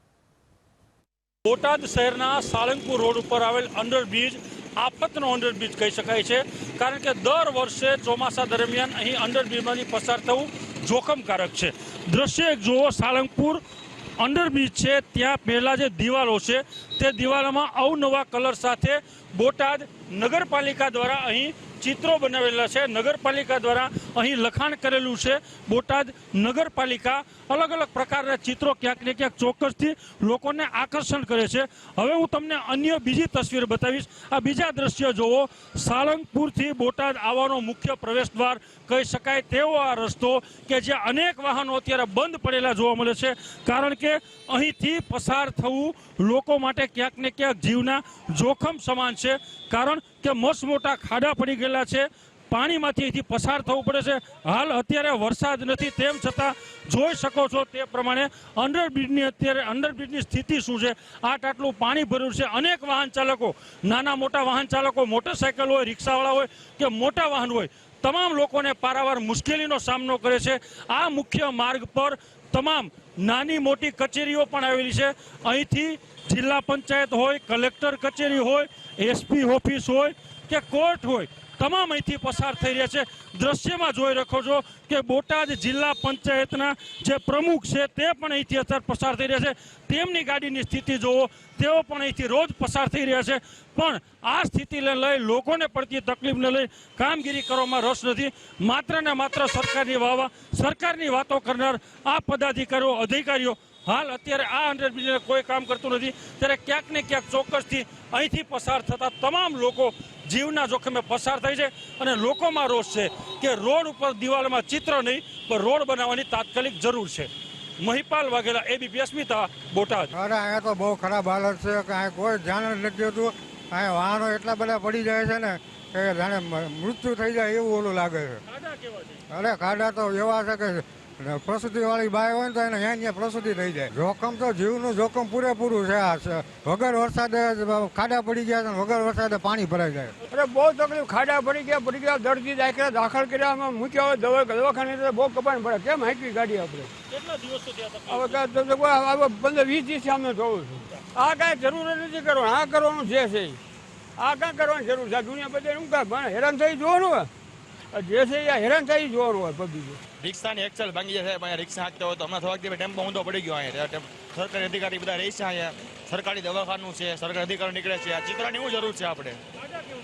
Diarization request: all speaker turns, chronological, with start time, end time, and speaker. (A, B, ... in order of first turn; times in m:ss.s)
0:01.4-0:13.6 A
0:14.2-2:00.1 A
2:00.1-2:08.4 B
2:08.6-2:09.2 A
2:09.3-2:20.1 B
2:20.3-2:26.9 C
2:27.1-2:28.5 A
2:28.1-2:33.6 C
2:34.2-2:37.3 C
2:37.9-2:40.0 C
2:40.2-2:49.4 D